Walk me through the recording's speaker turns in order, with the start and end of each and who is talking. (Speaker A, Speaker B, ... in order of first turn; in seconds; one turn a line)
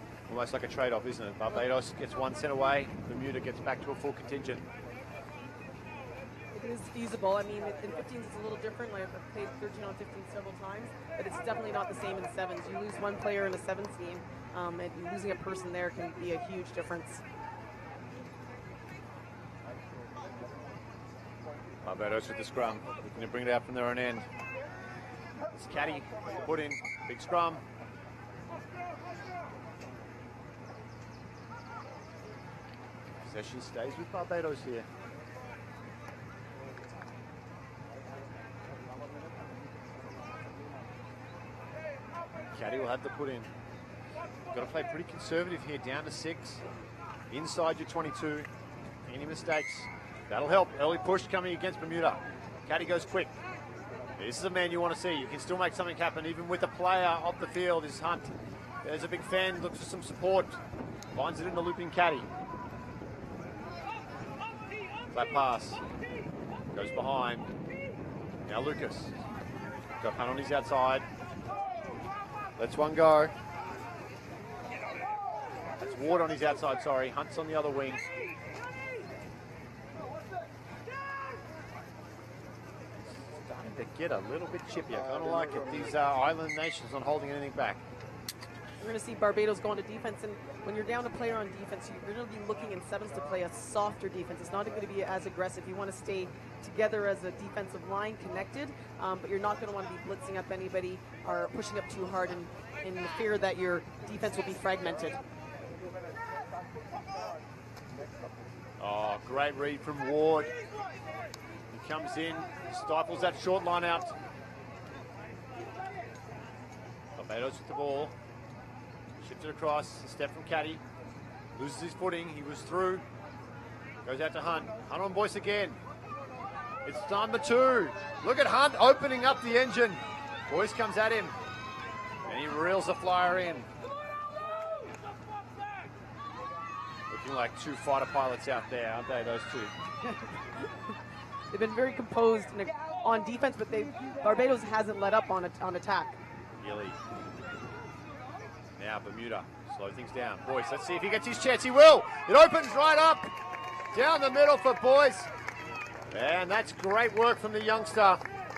Speaker A: 0.3-4.6
Speaker B: 6.5-17.2
Speaker A: 21.8-24.2
Speaker A: 25.6-27.6
Speaker A: 33.2-34.9
Speaker A: 42.5-43.5
Speaker A: 44.5-46.6
Speaker A: 47.3-48.5
Speaker A: 49.0-53.3
Speaker A: 54.2-60.6
Speaker A: 61.1-62.3
Speaker A: 65.1-65.8
Speaker A: 66.7-67.5
Speaker A: 68.5-69.1
Speaker A: 70.0-71.0
Speaker A: 72.6-73.3
Speaker A: 75.8-78.0
Speaker A: 83.0-87.8
Speaker B: 88.8-105.2
Speaker A: 108.8-110.5
Speaker A: 111.7-114.2
Speaker A: 117.2-118.1
Speaker A: 119.2-120.8
Speaker A: 121.5-123.0
Speaker A: 124.0-125.8
Speaker A: 126.8-131.3
Speaker A: 132.2-133.7
Speaker A: 137.1-139.7
Speaker B: 141.5-146.2
Speaker A: 146.6-147.0
Speaker A: 148.8-153.3
Speaker A: 153.9-155.3
Speaker A: 156.1-158.2